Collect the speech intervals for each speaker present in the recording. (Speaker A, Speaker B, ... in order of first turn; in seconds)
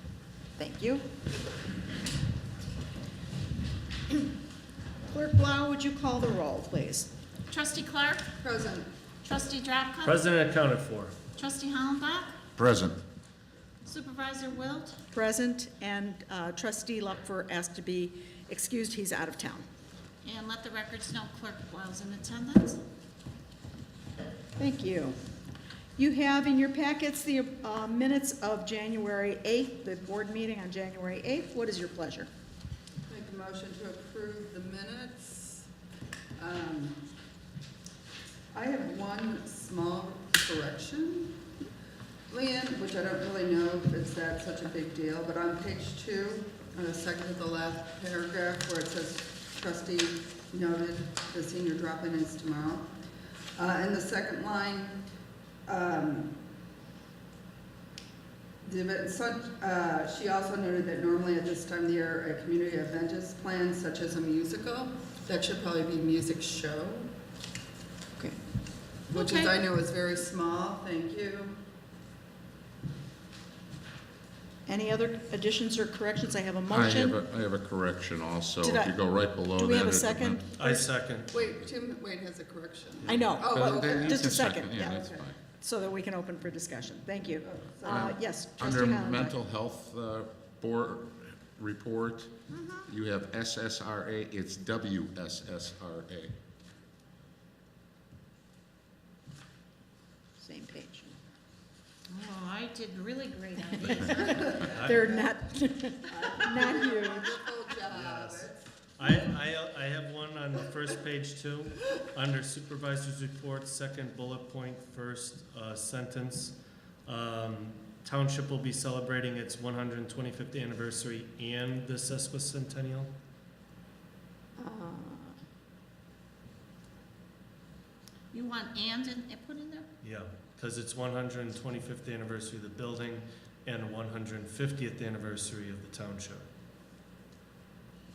Speaker A: 0.6-1.0, 5.1-7.1, 15.1-19.6, 24.6-25.2, 25.9-32.3, 74.7-77.2, 78.6-78.9, 79.5-80.9, 83.0-89.3, 92.5-92.9, 100.4-101.2, 104.1-107.3, 124.6-125.4
Speaker B: 7.5-8.2, 9.2-10.2, 11.3-12.3, 13.8-15.0, 20.2-22.8, 69.1-69.5, 102.1-104.8, 128.3-129.9
Speaker C: 8.4-8.9, 33.1-35.7, 36.4-37.0, 38.5-41.4, 42.3-52.9, 53.5-55.0, 55.6-56.3, 58.6-67.1, 69.1-71.6, 81.3-84.3, 84.8-85.3, 87.4-88.2, 104.6-105.2, 106.1-108.6
Speaker D: 10.0-11.1, 80.6-81.3, 104.7-105.1, 107.9-116.5, 117.0-123.1, 130.0-136.4
Speaker E: 12.6-13.0, 76.7-80.5, 83.1-85.3, 87.9-92.3, 92.9-96.3